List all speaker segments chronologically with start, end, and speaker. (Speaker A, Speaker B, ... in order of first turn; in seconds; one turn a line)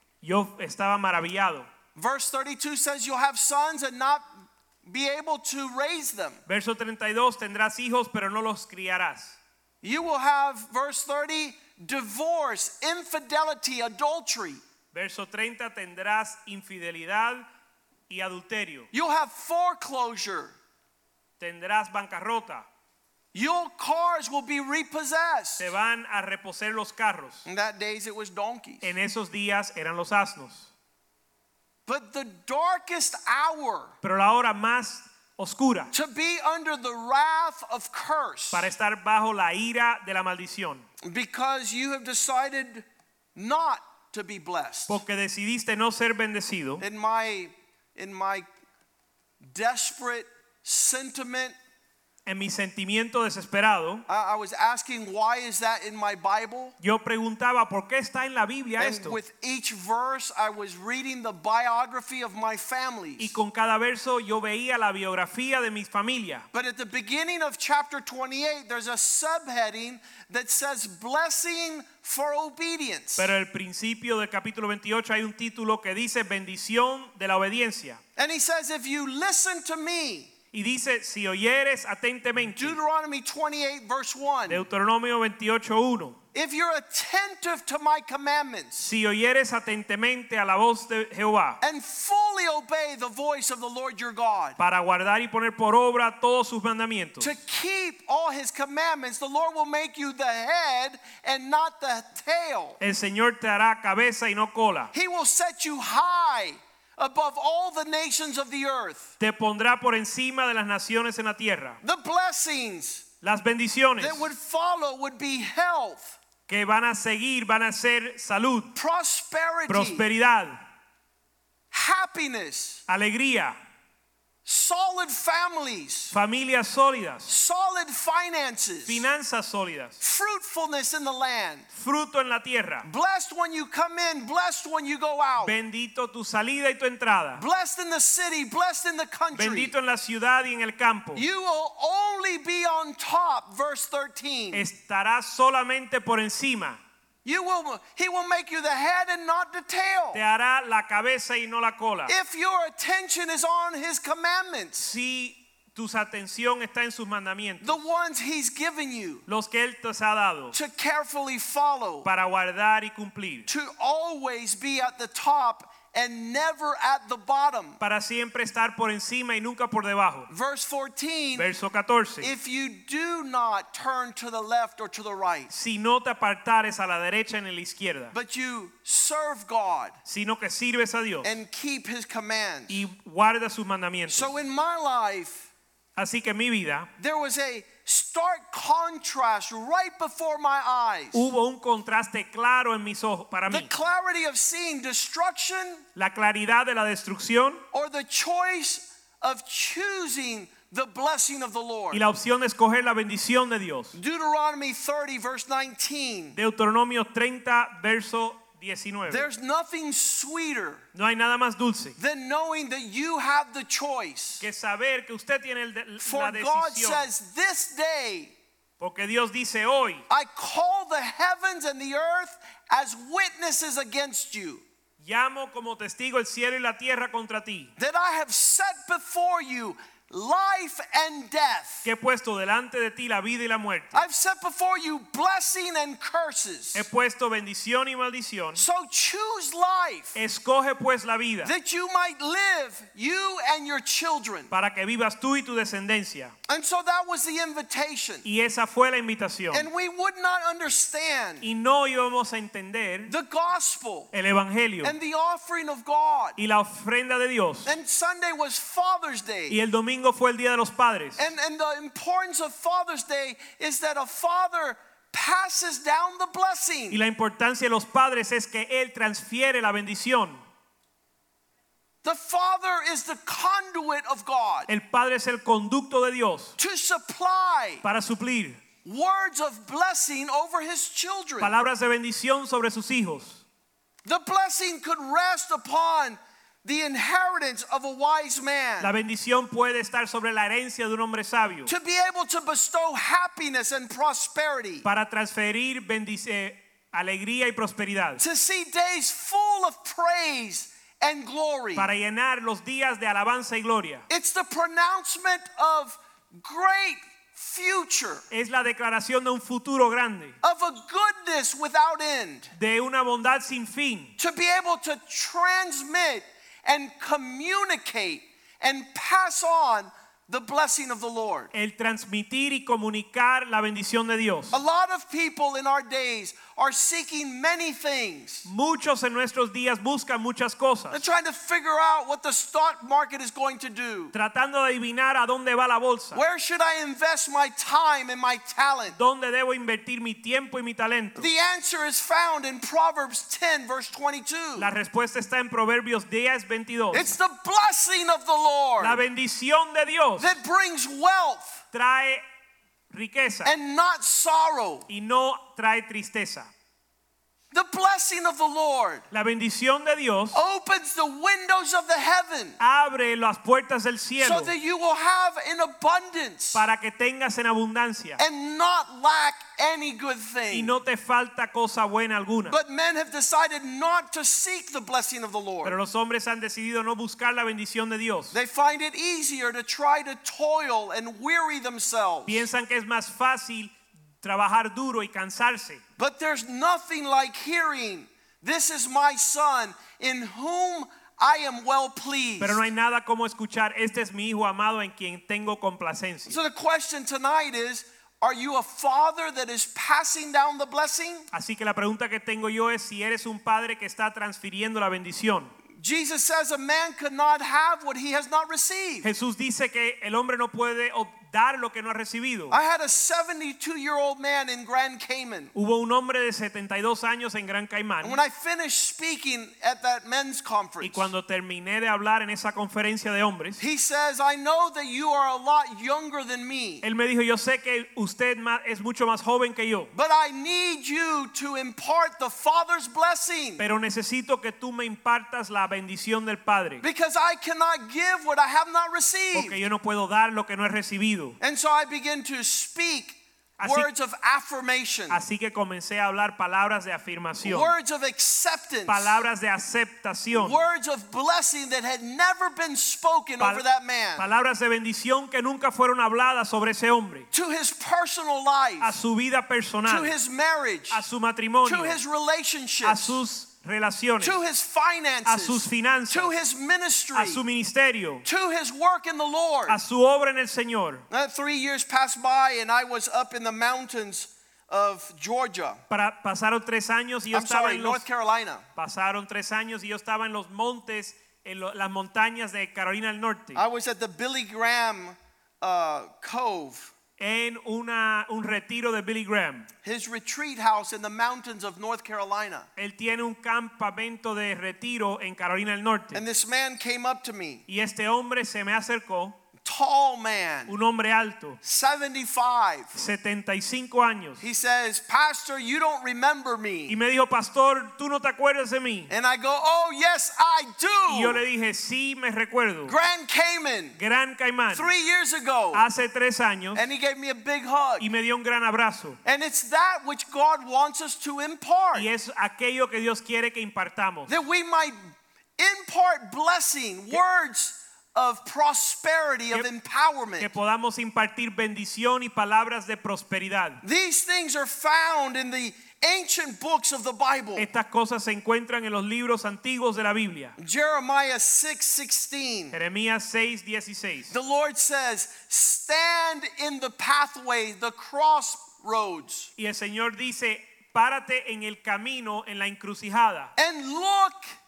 Speaker A: 0.2-1.7
Speaker B: 1.9-6.4
Speaker A: 6.5-9.4
Speaker B: 9.8-14.6
Speaker A: 14.9-17.5
Speaker A: 18.1-18.9
Speaker B: 18.9-20.6
Speaker A: 21.4-22.7
Speaker B: 23.3-25.7
Speaker A: 25.6-27.4
Speaker B: 27.4-28.9
Speaker A: 28.8-30.7
Speaker B: 31.9-33.9
Speaker A: 34.0-35.9
Speaker B: 35.9-38.7
Speaker A: 38.5-40.9
Speaker B: 41.0-45.0
Speaker A: 44.9-46.8
Speaker B: 46.8-48.5
Speaker B: 49.4-51.5
Speaker A: 52.3-54.0
Speaker B: 54.1-56.8
Speaker A: 56.8-59.2
Speaker B: 58.8-63.4
Speaker A: 63.2-66.5
Speaker B: 66.5-73.3
Speaker A: 73.2-78.0
Speaker B: 78.2-80.3
Speaker A: 80.5-82.8
Speaker B: 82.4-84.6
Speaker A: 84.5-86.2
Speaker B: 86.3-88.9
Speaker A: 88.8-91.6
Speaker B: 91.6-94.6
Speaker A: 94.6-97.3
Speaker B: 97.2-102.8
Speaker A: 102.8-104.9
Speaker B: 104.9-109.1
Speaker A: 109.2-111.8
Speaker B: 111.8-113.0
Speaker A: 113.2-114.3
Speaker B: 114.0-116.2
Speaker A: 116.5-118.7
Speaker B: 118.7-120.0
Speaker A: 119.7-120.6
Speaker B: 121.7-122.8
Speaker A: 122.9-123.6
Speaker B: 124.5-126.2
Speaker A: 126.1-127.3
Speaker B: 127.3-129.1
Speaker A: 128.9-130.0
Speaker B: 130.0-131.7
Speaker A: 131.7-132.9
Speaker B: 132.8-135.6
Speaker A: 135.4-137.4
Speaker B: 137.4-139.7
Speaker A: 139.3-141.2
Speaker B: 141.2-144.7
Speaker A: 144.5-146.8
Speaker B: 147.2-150.2
Speaker A: 150.1-152.2
Speaker B: 152.1-154.9
Speaker A: 154.8-157.8
Speaker B: 157.6-159.2
Speaker A: 159.3-160.6
Speaker B: 160.5-162.1
Speaker A: 162.0-163.5
Speaker B: 163.5-167.8
Speaker A: 167.8-170.3
Speaker B: 170.3-171.5
Speaker A: 171.3-172.3
Speaker B: 172.2-175.5
Speaker A: 175.5-178.2
Speaker B: 178.1-180.0
Speaker A: 180.1-181.4
Speaker B: 181.2-182.8
Speaker A: 182.7-184.3
Speaker B: 184.1-185.5
Speaker A: 186.0-186.9
Speaker B: 187.0-191.3
Speaker A: 191.1-193.7
Speaker B: 193.5-195.8
Speaker A: 196.0-197.6
Speaker B: 197.7-202.0
Speaker A: 201.9-204.0
Speaker B: 203.9-206.4
Speaker A: 206.4-209.3
Speaker B: 209.1-210.8
Speaker A: 210.9-212.0
Speaker B: 212.0-214.4
Speaker A: 214.4-217.1
Speaker B: 216.0-218.3
Speaker A: 218.8-220.1
Speaker B: 220.1-224.6
Speaker A: 225.0-227.7
Speaker B: 227.8-231.9
Speaker A: 231.8-234.0
Speaker B: 233.9-236.9
Speaker A: 236.7-238.7
Speaker B: 238.6-240.2
Speaker A: 240.2-241.5
Speaker B: 241.4-244.5
Speaker A: 244.5-246.3
Speaker B: 246.5-248.2
Speaker A: 248.2-249.7
Speaker B: 249.5-251.5
Speaker A: 251.4-253.1
Speaker B: 253.1-254.1
Speaker A: 254.1-254.9
Speaker B: 254.8-256.4
Speaker A: 256.4-257.7
Speaker B: 257.6-259.6
Speaker A: 259.5-261.3
Speaker B: 261.2-267.0
Speaker A: 266.9-270.4
Speaker B: 272.0-274.7
Speaker A: 274.7-276.6
Speaker B: 276.6-277.8
Speaker A: 277.8-278.6
Speaker B: 278.8-281.5
Speaker A: 281.4-283.4
Speaker B: 284.1-288.9
Speaker A: 288.8-291.7
Speaker B: 291.7-294.9
Speaker A: 294.9-298.2
Speaker B: 298.2-301.9
Speaker A: 301.8-304.1
Speaker B: 304.1-308.2
Speaker A: 308.3-310.4
Speaker B: 310.4-312.5
Speaker A: 312.5-314.1
Speaker B: 314.2-321.5
Speaker A: 321.5-324.6
Speaker B: 324.5-328.5
Speaker A: 328.4-331.1
Speaker B: 330.9-334.1
Speaker A: 334.1-336.2
Speaker B: 336.1-339.0
Speaker A: 338.9-341.3
Speaker B: 341.2-344.7
Speaker A: 344.6-347.1
Speaker B: 346.9-349.0
Speaker A: 348.8-350.3
Speaker B: 350.2-351.6
Speaker A: 351.7-352.2
Speaker A: 352.9-353.5
Speaker B: 353.4-354.9
Speaker A: 354.9-356.5
Speaker B: 357.5-359.1
Speaker A: 359.1-360.4
Speaker B: 360.3-362.6
Speaker A: 362.6-364.5
Speaker B: 364.2-366.6
Speaker A: 366.6-368.2
Speaker B: 368.2-370.8
Speaker A: 370.5-372.6
Speaker B: 372.5-375.8
Speaker A: 375.6-378.3
Speaker B: 378.3-382.5
Speaker A: 382.3-385.8
Speaker B: 386.0-392.6
Speaker A: 392.4-396.4
Speaker B: 396.3-401.3
Speaker A: 401.3-405.5
Speaker B: 405.8-409.1
Speaker A: 409.0-412.6
Speaker B: 412.5-415.5
Speaker A: 415.6-418.2
Speaker B: 418.0-421.1
Speaker A: 420.8-423.6
Speaker B: 423.6-426.9
Speaker A: 426.8-429.9
Speaker B: 429.9-433.6
Speaker A: 433.6-436.8
Speaker B: 436.8-439.6
Speaker A: 439.4-441.4
Speaker B: 441.4-445.2
Speaker A: 443.6-443.9
Speaker A: 445.1-447.7
Speaker B: 447.4-449.2
Speaker A: 448.9-450.6
Speaker B: 450.3-454.3
Speaker A: 453.4-453.6
Speaker A: 454.2-457.3
Speaker B: 457.3-459.0
Speaker A: 458.8-460.1
Speaker B: 459.9-461.0
Speaker A: 460.9-462.0
Speaker B: 461.6-463.2
Speaker A: 462.8-464.4
Speaker B: 464.2-467.4
Speaker A: 465.2-466.4
Speaker A: 467.1-468.2
Speaker B: 468.2-469.8
Speaker A: 469.7-471.1
Speaker B: 471.1-475.8
Speaker A: 475.9-478.1
Speaker B: 477.3-478.6
Speaker A: 478.8-483.6
Speaker B: 483.6-486.9
Speaker A: 487.2-489.7
Speaker B: 489.8-492.7
Speaker A: 492.8-496.2
Speaker B: 496.1-497.6
Speaker A: 497.7-499.4
Speaker B: 499.6-500.7
Speaker A: 500.7-501.6
Speaker B: 501.6-502.9
Speaker A: 502.9-504.4
Speaker B: 504.4-507.0
Speaker A: 506.9-509.1
Speaker B: 509.1-511.4
Speaker A: 511.1-513.0
Speaker B: 512.9-514.0
Speaker A: 514.0-514.9
Speaker B: 514.7-515.9
Speaker A: 515.7-516.9
Speaker B: 516.7-518.1
Speaker A: 518.0-519.2
Speaker B: 519.2-522.1
Speaker A: 521.9-524.4
Speaker B: 524.3-530.5
Speaker A: 530.4-533.8
Speaker B: 533.8-537.7
Speaker A: 537.6-540.5
Speaker B: 540.6-542.8
Speaker A: 542.7-544.3
Speaker B: 544.3-549.5
Speaker A: 549.6-553.5
Speaker B: 553.6-554.5